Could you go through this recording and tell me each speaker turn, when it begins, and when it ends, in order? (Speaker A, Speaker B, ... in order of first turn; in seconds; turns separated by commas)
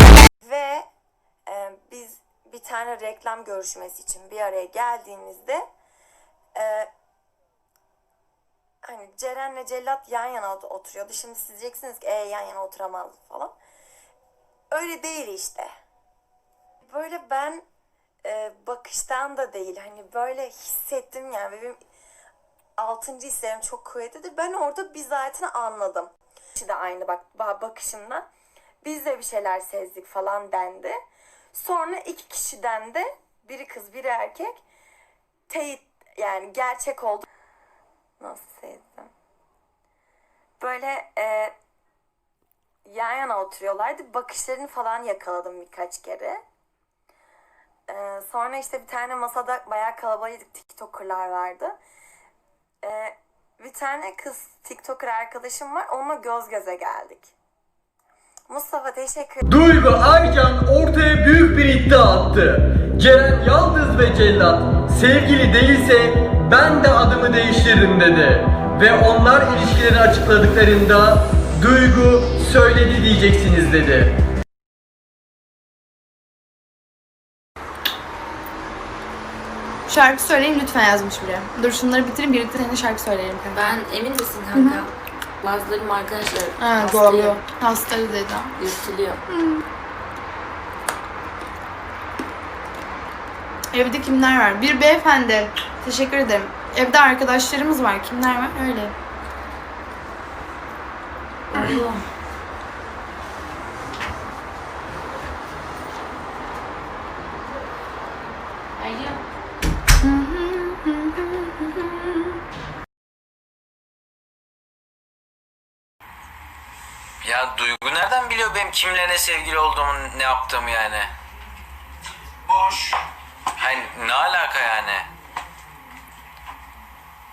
Speaker A: 0.4-0.8, Speaker A: 1.5-5.6, Speaker A: 6.5-6.9, Speaker A: 8.8-13.5, Speaker A: 14.7-15.7, Speaker A: 16.8-17.6, Speaker A: 18.2-21.8, Speaker A: 22.8-28.2, Speaker A: 28.8-31.0, Speaker A: 31.5-34.6, Speaker A: 35.5-37.3, Speaker A: 38.2-39.1, Speaker A: 40.6-41.5, Speaker A: 42.9-46.4, Speaker A: 47.9-51.8, Speaker A: 52.8-57.3, Speaker A: 58.5-59.4, Speaker B: 59.5-74.1, Speaker C: 79.9-83.7, Speaker D: 83.5-87.4, Speaker C: 84.5-84.8, Speaker C: 86.6-88.6, Speaker D: 88.6-89.2, Speaker C: 89.3-89.6, Speaker C: 93.7-98.9, Speaker D: 101.5-102.0, Speaker D: 108.8-109.2, Speaker C: 110.0-111.7, Speaker E: 117.2-121.1, Speaker E: 122.5-123.0, Speaker E: 123.6-125.1